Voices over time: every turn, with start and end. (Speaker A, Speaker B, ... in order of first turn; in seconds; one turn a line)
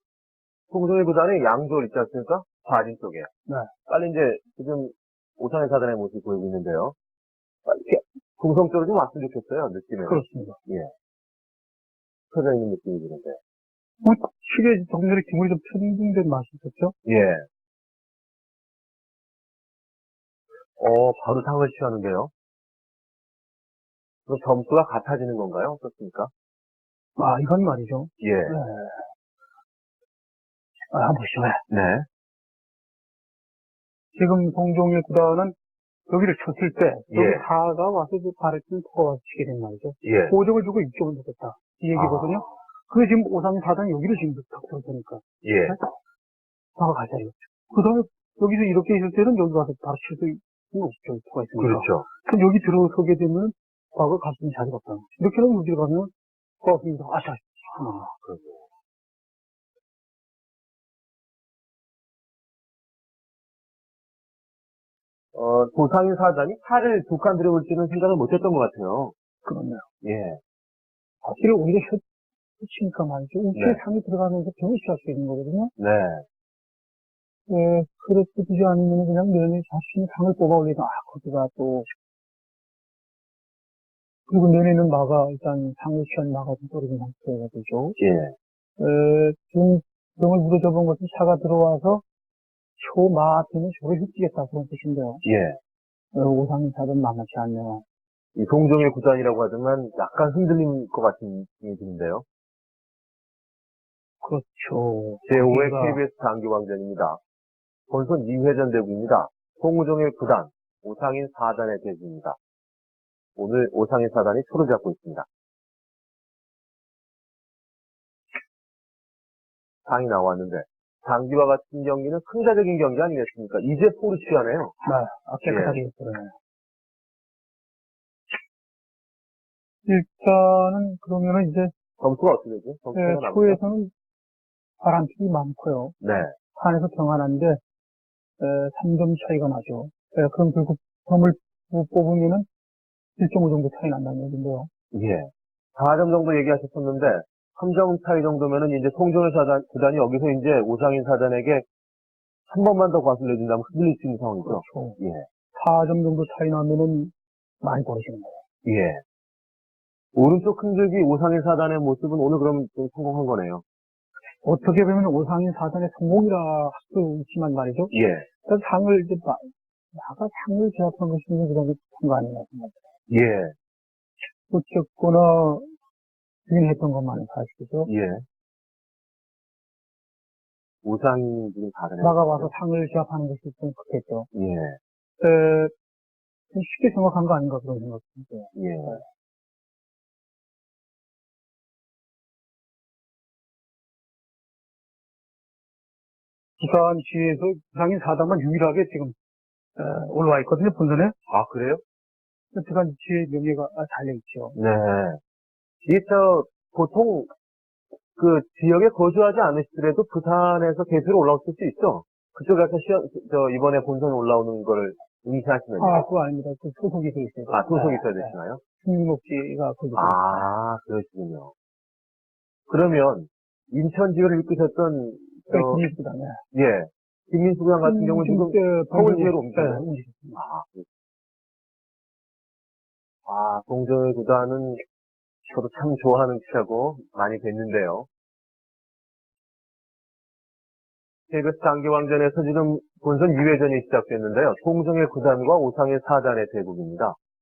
Speaker A: 0.7-3.3
Speaker A: 3.9-6.9
Speaker A: 7.6-10.9
Speaker B: 10.1-10.6
Speaker A: 12.3-13.4
Speaker B: 14.0-16.9
Speaker A: 17.0-17.4
Speaker A: 20.8-22.3
Speaker A: 24.3-26.3
Speaker B: 27.2-29.0
Speaker A: 28.2-28.6
Speaker B: 30.9-31.6
Speaker A: 31.7-32.0
Speaker B: 34.1-35.5
Speaker B: 36.1-45.9
Speaker A: 37.1-37.4
Speaker A: 40.0-40.3
Speaker A: 41.9-42.6
Speaker A: 45.4-45.8
Speaker B: 46.8-56.1
Speaker A: 51.6-52.1
Speaker B: 56.6-58.1
Speaker A: 58.2-58.6
Speaker A: 65.3-69.1
Speaker B: 69.4-69.8
Speaker A: 70.0-70.4
Speaker B: 71.2-72.0
Speaker B: 72.6-75.7
Speaker A: 73.5-73.8
Speaker A: 75.8-76.2
Speaker B: 77.5-81.9
Speaker B: 84.3-88.0
Speaker A: 88.0-88.3
Speaker B: 88.8-92.0
Speaker B: 92.8-95.2
Speaker A: 95.2-95.6
Speaker B: 96.1-97.8
Speaker A: 98.3-102.2
Speaker B: 104.2-106.0
Speaker A: 105.2-107.2
Speaker A: 107.9-112.4
Speaker A: 113.3-115.2
Speaker A: 119.8-124.7
Speaker B: 124.8-126.3
Speaker A: 125.4-125.8
Speaker B: 129.8-131.7
Speaker A: 132.0-133.6
Speaker B: 132.9-133.9
Speaker B: 134.8-136.0
Speaker A: 136.0-136.3
Speaker B: 136.5-137.6
Speaker B: 138.4-142.5
Speaker B: 143.2-144.7
Speaker A: 144.9-151.6
Speaker A: 152.5-155.2
Speaker B: 154.4-155.0
Speaker B: 155.5-158.4
Speaker A: 158.6-159.0
Speaker A: 160.1-163.6
Speaker B: 164.4-167.9
Speaker A: 167.9-168.3
Speaker B: 168.4-172.8
Speaker A: 173.1-173.5
Speaker B: 174.5-175.7
Speaker B: 176.5-177.9
Speaker A: 177.8-178.2
Speaker A: 180.8-182.5
Speaker B: 182.0-184.3
Speaker A: 184.3-184.8
Speaker B: 185.2-185.7
Speaker B: 186.5-189.0
Speaker A: 188.5-189.0
Speaker B: 196.6-199.1
Speaker B: 199.8-201.1
Speaker A: 201.3-201.8
Speaker B: 202.5-204.5
Speaker A: 204.5-205.2
Speaker A: 205.8-207.3
Speaker A: 208.2-216.0
Speaker B: 215.8-220.4
Speaker A: 217.5-218.6
Speaker A: 219.9-221.5
Speaker A: 222.7-225.8
Speaker B: 225.5-226.4
Speaker A: 226.5-230.8
Speaker B: 227.8-230.4
Speaker A: 233.2-234.8
Speaker A: 235.4-238.1
Speaker A: 241.3-247.2